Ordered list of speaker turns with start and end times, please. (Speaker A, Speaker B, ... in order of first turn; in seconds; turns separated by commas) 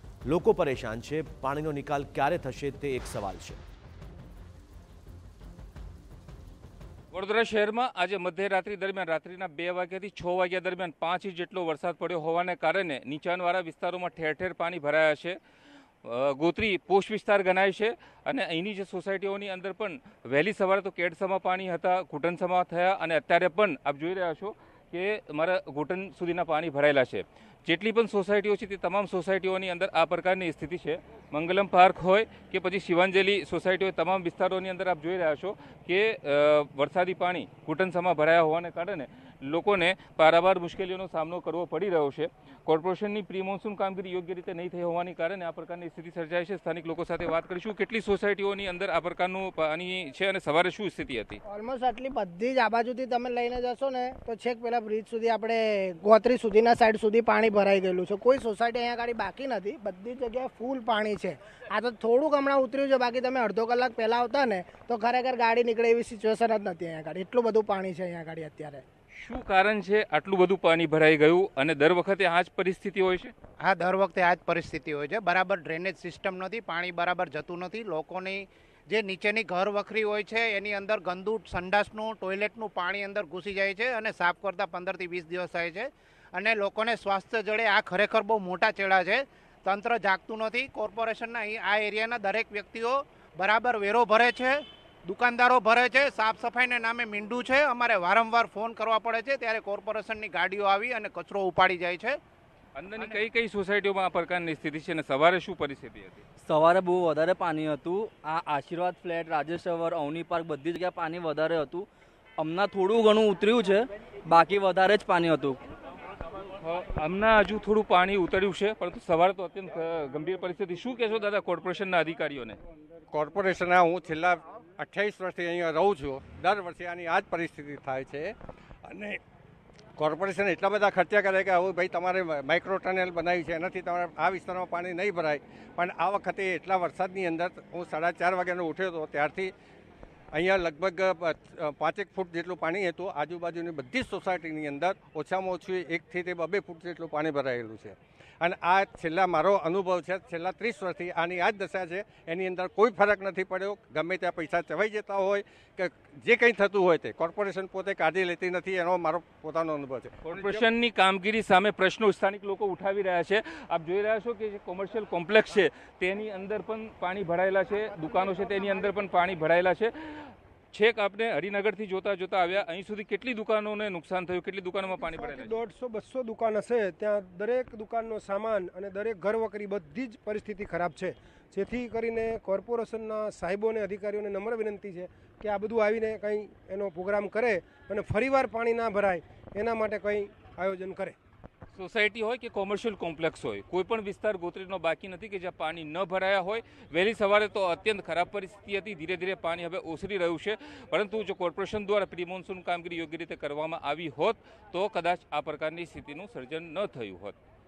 Speaker A: 0.3-3.6, Speaker B: 7.1-15.4, Speaker B: 16.0-51.4, Speaker C: 51.5-68.8, Speaker B: 69.1-73.3, Speaker D: 73.6-102.2, Speaker B: 102.8-106.2, Speaker E: 106.4-115.6, Speaker B: 116.6-122.6, Speaker F: 123.1-128.3, Speaker F: 128.9-129.2, Speaker F: 130.0-139.5, Speaker F: 140.3-160.7, Speaker B: 160.2-175.6, Speaker G: 175.0-191.2, Speaker B: 191.7-207.4